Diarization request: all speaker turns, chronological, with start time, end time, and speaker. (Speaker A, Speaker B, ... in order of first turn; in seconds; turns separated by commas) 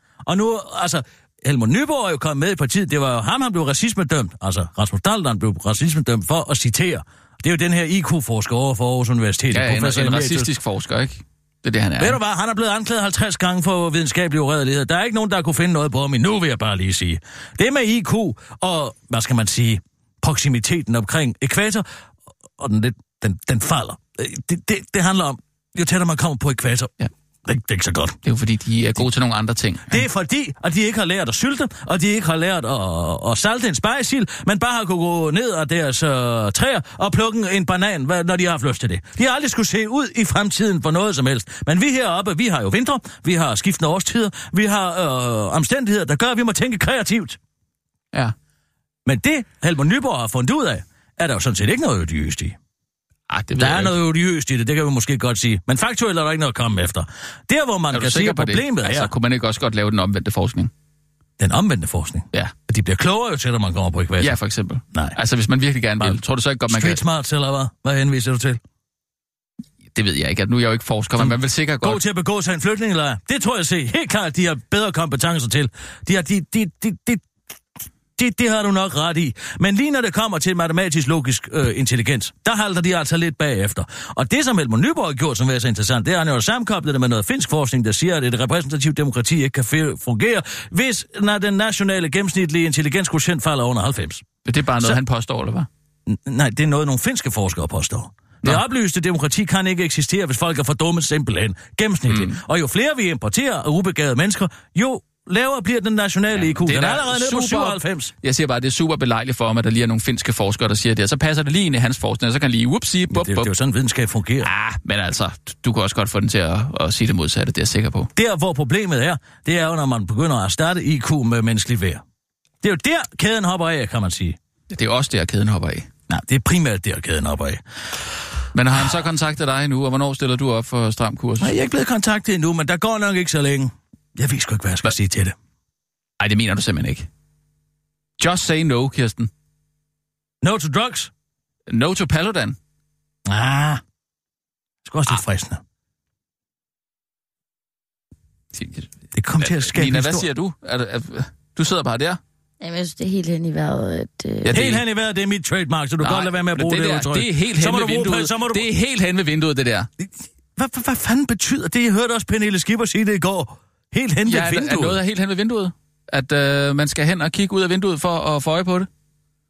Speaker A: 0.3-10.5, Speaker B: 9.5-12.2, Speaker A: 12.0-21.9, Speaker A: 22.6-26.9, Speaker A: 27.4-28.2, Speaker B: 28.2-30.0, Speaker A: 29.9-47.4, Speaker A: 49.1-52.6, Speaker B: 53.3-54.0, Speaker A: 53.6-59.1, Speaker B: 57.9-60.7, Speaker A: 61.4-64.4, Speaker B: 64.2-67.0, Speaker A: 64.9-65.2, Speaker A: 66.0-68.6, Speaker B: 69.9-72.0, Speaker A: 71.2-77.2, Speaker A: 78.2-94.2, Speaker B: 94.5-95.7, Speaker A: 96.1-108.1, Speaker B: 102.1-102.4, Speaker B: 106.3-113.5, Speaker A: 113.1-114.5, Speaker B: 114.4-118.1, Speaker A: 118.2-122.0, Speaker A: 122.6-124.4, Speaker B: 124.7-125.9, Speaker A: 126.1-127.6, Speaker B: 128.5-131.6, Speaker A: 131.4-135.4, Speaker B: 136.2-137.1, Speaker B: 138.2-139.3, Speaker A: 140.4-141.1, Speaker B: 141.7-142.6, Speaker A: 143.3-143.8, Speaker A: 144.8-145.6, Speaker B: 148.5-152.2, Speaker A: 149.1-150.3, Speaker C: 152.6-154.6, Speaker B: 154.4-154.8, Speaker A: 154.5-158.7, Speaker B: 156.0-159.9, Speaker A: 160.0-165.0, Speaker B: 164.3-168.9